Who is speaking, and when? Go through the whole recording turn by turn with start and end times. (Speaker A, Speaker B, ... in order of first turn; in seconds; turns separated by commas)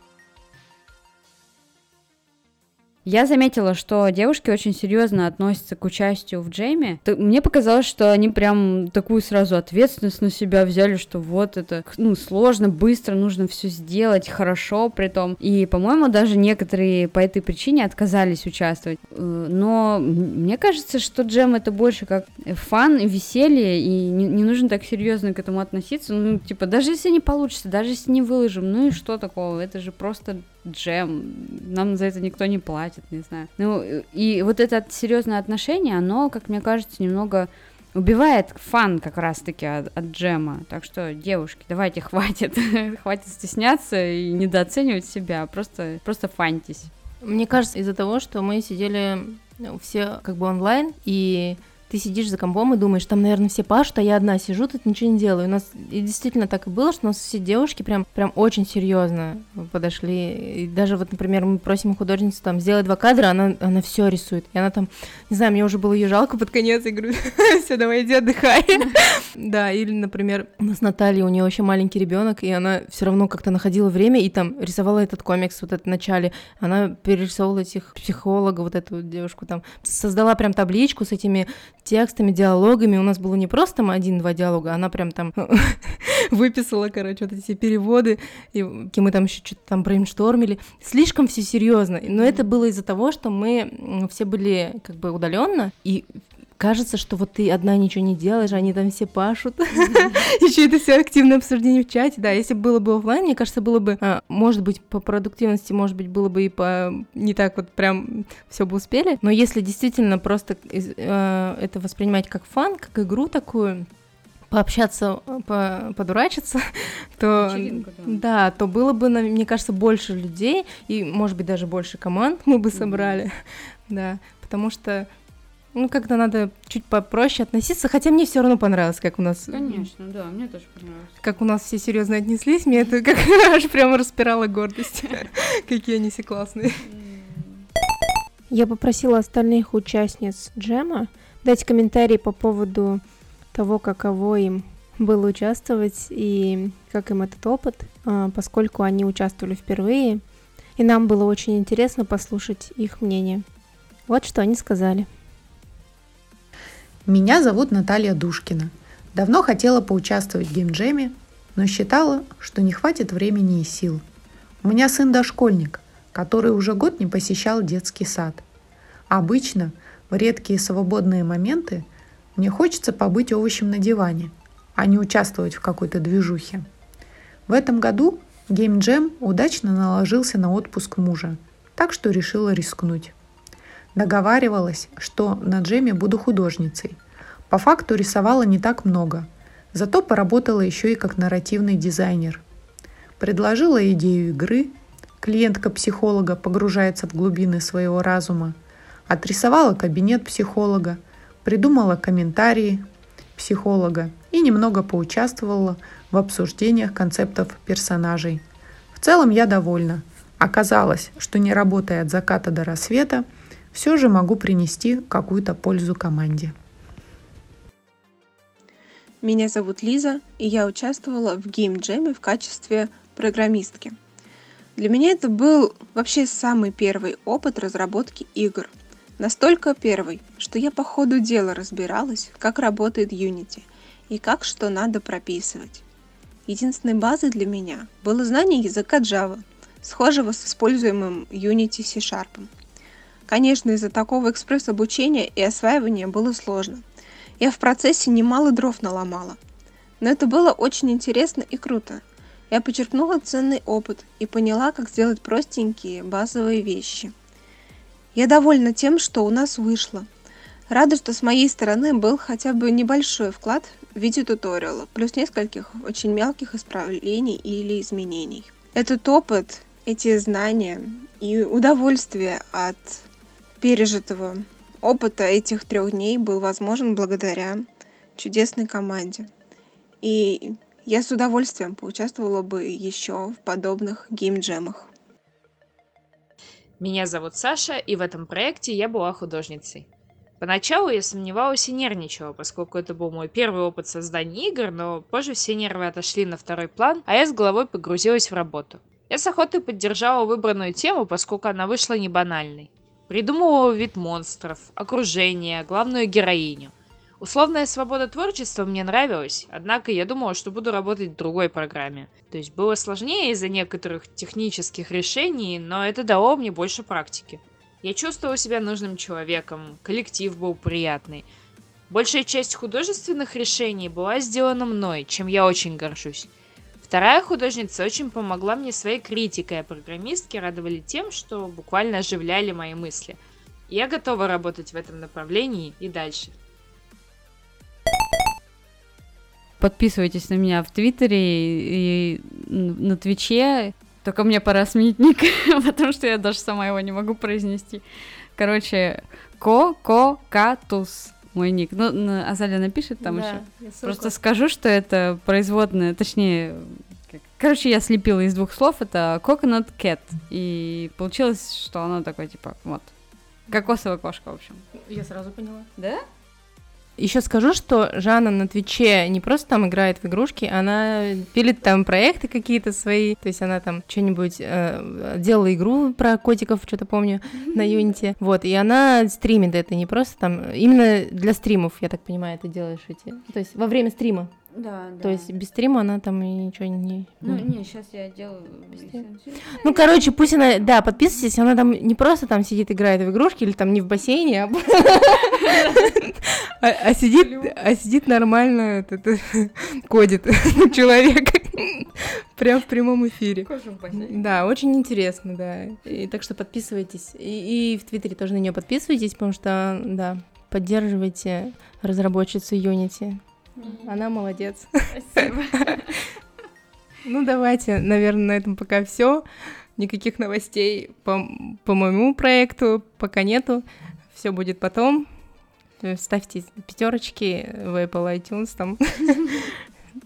Speaker A: 3.0-46.9, Speaker B: 47.2-113.9, Speaker A: 99.8-100.1, Speaker B: 114.5-125.1, Speaker A: 117.4-118.2, Speaker A: 122.7-123.2, Speaker B: 125.7-129.9, Speaker A: 129.5-131.2, Speaker B: 131.2-136.8, Speaker A: 136.8-137.7, Speaker B: 138.5-143.0, Speaker B: 143.5-150.2, Speaker B: 150.8-153.4, Speaker B: 154.1-155.1, Speaker C: 157.0-164.0, Speaker C: 164.6-168.4, Speaker C: 169.1-176.7, Speaker C: 177.5-183.1, Speaker C: 183.9-187.0, Speaker C: 187.5-192.4, Speaker C: 193.2-198.6, Speaker C: 199.1-208.4, Speaker C: 208.9-216.5, Speaker D: 219.2-223.9, Speaker D: 224.8-235.8, Speaker D: 236.5-242.5, Speaker D: 243.3-246.8, Speaker D: 247.4-249.4, Speaker D: 250.0-257.1, Speaker D: 258.1-260.1, Speaker D: 260.7-273.0, Speaker D: 273.6-279.3, Speaker D: 280.0-284.9, Speaker E: 286.8-289.9, Speaker E: 290.4-321.2, Speaker E: 321.9-326.3, Speaker E: 326.8-333.2, Speaker E: 333.7-336.3, Speaker A: 339.6-347.8, Speaker A: 348.4-362.9, Speaker B: 353.0-354.1, Speaker A: 363.5-364.6, Speaker B: 364.8-365.7, Speaker A: 365.8-366.0, Speaker B: 367.0-384.3, Speaker A: 377.4-377.8, Speaker A: 384.5-385.3, Speaker B: 385.0-387.5, Speaker A: 387.2-390.1, Speaker B: 388.8-415.9, Speaker A: 395.4-395.9, Speaker A: 397.2-397.6, Speaker A: 403.4-404.4, Speaker A: 413.6-413.9, Speaker A: 414.9-416.0, Speaker B: 417.0-419.2, Speaker B: 419.8-425.1, Speaker B: 425.8-429.6